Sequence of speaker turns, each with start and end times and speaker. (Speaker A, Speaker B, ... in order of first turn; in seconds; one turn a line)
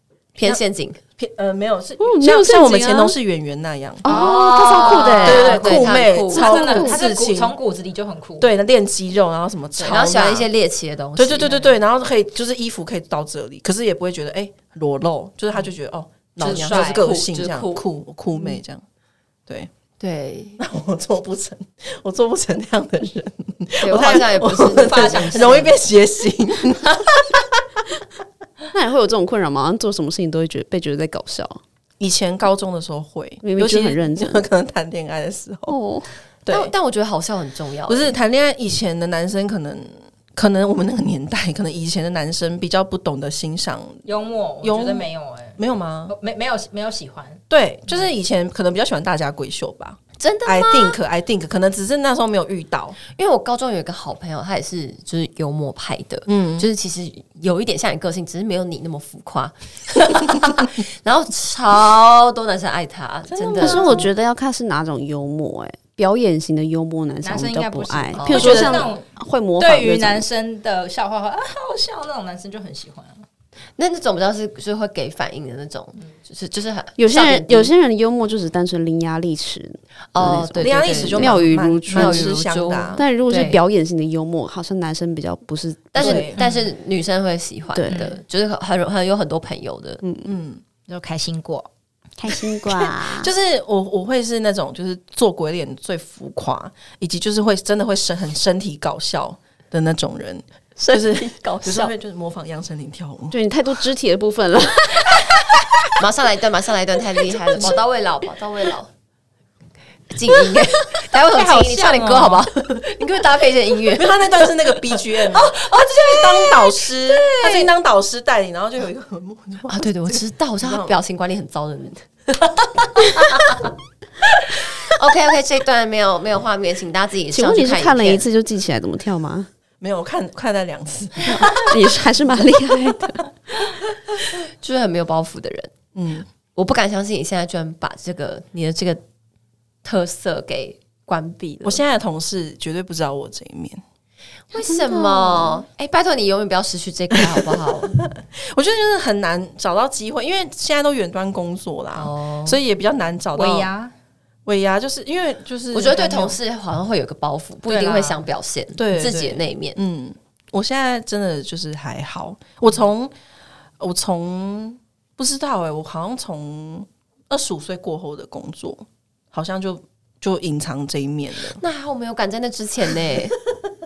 Speaker A: 0.4-1.0
Speaker B: 1.2-4.1
Speaker C: 2.0-3.1
Speaker C: 4.0-5.6
Speaker D: 4.1-8.5
Speaker A: 4.1-6.8
Speaker B: 5.2-7.5
Speaker C: 6.4-7.0
Speaker B: 8.4-10.5
Speaker A: 9.8-11.7
Speaker B: 11.2-18.8
Speaker A: 16.4-17.2
Speaker D: 16.4-17.8
Speaker A: 20.0-20.6
Speaker B: 20.6-27.6
Speaker A: 23.8-25.8
Speaker D: 24.7-25.7
Speaker C: 28.7-31.6
Speaker B: 32.0-35.8
Speaker C: 33.4-34.5
Speaker C: 35.7-36.1
Speaker B: 36.5-36.7
Speaker A: 36.5-38.1
Speaker B: 37.9-44.0
Speaker D: 44.0-47.4
Speaker B: 44.6-45.1
Speaker B: 45.6-46.1
Speaker B: 47.5-53.0
Speaker A: 50.2-51.0
Speaker A: 53.1-64.1
Speaker B: 56.3-56.7
Speaker B: 63.3-64.1
Speaker C: 63.6-70.2
Speaker D: 67.2-69.0
Speaker A: 68.2-68.6
Speaker B: 68.3-68.9
Speaker D: 69.6-73.2
Speaker A: 73.8-77.7
Speaker C: 77.0-82.3
Speaker A: 80.1-83.6
Speaker B: 80.6-83.0
Speaker C: 83.0-86.3
Speaker A: 85.9-90.0
Speaker B: 86.0-86.4
Speaker C: 87.7-88.1
Speaker C: 90.0-90.3
Speaker B: 90.2-90.6
Speaker D: 90.9-91.7
Speaker C: 92.2-93.3
Speaker B: 92.8-103.4
Speaker A: 100.8-101.9
Speaker C: 103.3-105.6
Speaker A: 106.0-108.9
Speaker A: 110.1-117.7
Speaker D: 111.3-112.5
Speaker B: 113.9-121.0
Speaker A: 119.7-123.7
Speaker A: 124.5-128.2
Speaker C: 127.3-129.5
Speaker B: 129.8-131.9
Speaker C: 131.3-133.2
Speaker A: 134.5-135.7
Speaker B: 135.9-136.3
Speaker A: 136.6-139.0
Speaker A: 139.8-141.8
Speaker B: 141.6-143.8
Speaker A: 144.5-148.0
Speaker C: 144.6-145.6
Speaker B: 147.2-147.5
Speaker B: 148.0-153.7
Speaker A: 151.9-152.6
Speaker D: 153.3-153.9
Speaker B: 154.5-156.4
Speaker A: 155.7-159.8
Speaker D: 157.7-158.2
Speaker B: 158.8-163.1
Speaker B: 163.8-171.6
Speaker A: 171.6-173.4